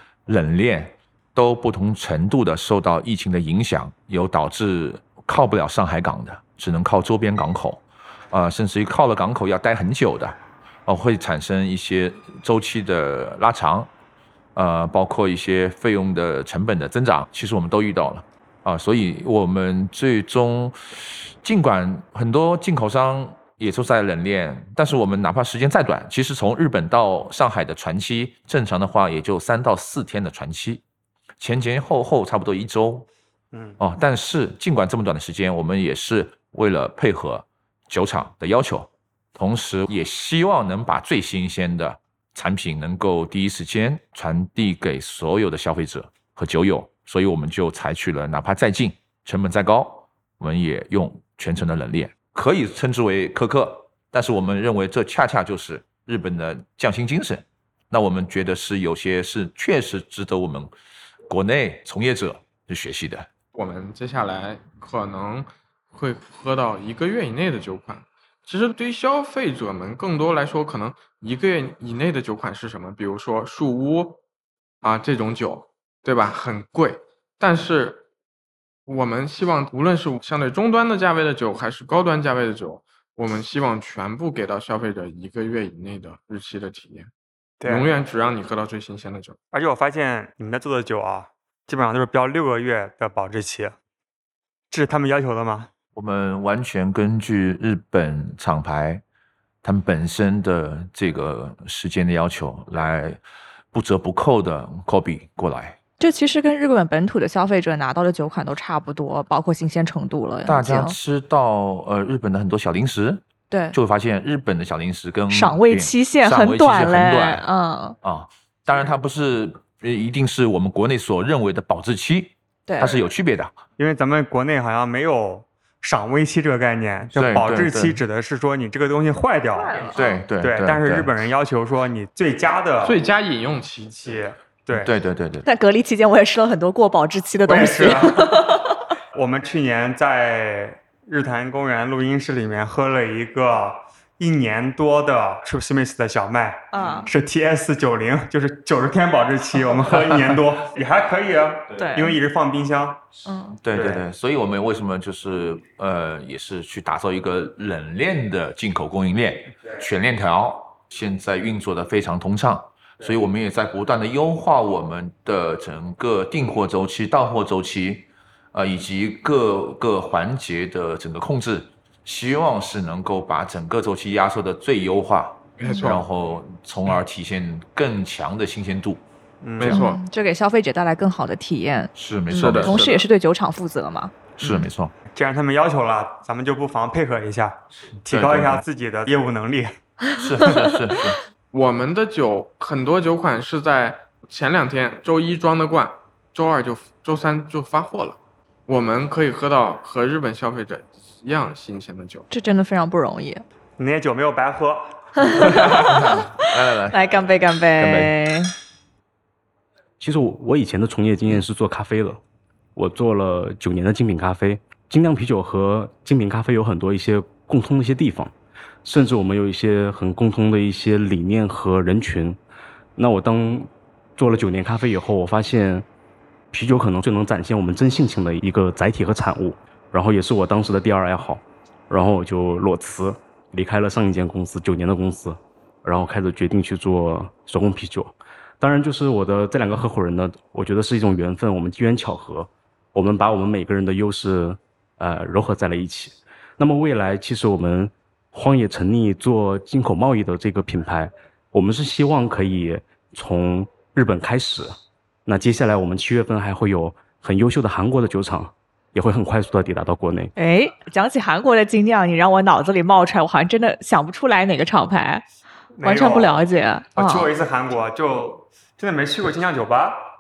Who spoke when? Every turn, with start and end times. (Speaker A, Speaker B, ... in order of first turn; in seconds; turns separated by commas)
Speaker A: 0.3-13.9, Speaker A: 14.5-30.8, Speaker A: 31.4-33.0, Speaker B: 33.5-33.8, Speaker A: 33.8-60.7, Speaker A: 61.3-63.3, Speaker C: 63.5-74.2, Speaker C: 74.8-78.0, Speaker C: 78.9-87.1, Speaker B: 87.6-87.9, Speaker C: 87.7-89.3, Speaker B: 89.5-93.8, Speaker B: 94.7-95.7, Speaker A: 95.9-99.0, Speaker A: 99.6-103.2, Speaker A: 103.7-105.8, Speaker D: 106.0-111.0, Speaker A: 110.5-117.4, Speaker D: 113.5-113.8, Speaker D: 115.3-118.0, Speaker A: 118.0-123.5, Speaker D: 122.7-123.0, Speaker B: 123.8-133.0, Speaker A: 127.2-128.0, Speaker D: 129.5-130.2, Speaker A: 129.9-131.1, Speaker C: 132.8-134.3, Speaker B: 134.0-134.9, Speaker A: 134.7-135.5, Speaker D: 135.4-138.8, Speaker B: 137.5-138.4, Speaker B: 139.1-153.0, Speaker D: 146.7-147.1, Speaker D: 151.8-152.2, Speaker D: 153.2-153.6, Speaker A: 153.6-179.0, Speaker B: 153.7-154.0, Speaker C: 175.6-176.1, Speaker D: 175.7-175.9, Speaker B: 179.4-179.8, Speaker C: 179.6-180.0, Speaker D: 179.7-184.6, Speaker A: 181.9-183.0, Speaker C: 182.4-183.0, Speaker A: 184.4-184.9, Speaker B: 185.1-189.8, Speaker A: 188.1-188.6, Speaker A: 190.2-191.2, Speaker D: 190.2-190.7, Speaker C: 191.5-202.3, Speaker D: 202.3-203.4, Speaker B: 203.8-204.9, Speaker D: 205.2-208.5, Speaker A: 205.5-207.0, Speaker E: 210.0-212.2, Speaker E: 212.8-218.3, Speaker E: 218.8-222.4, Speaker E: 222.9-225.8, Speaker E: 226.5-260.3, Speaker D: 260.4-265.2, Speaker B: 265.8-266.4, Speaker D: 265.8-267.3, Speaker B: 266.9-270.1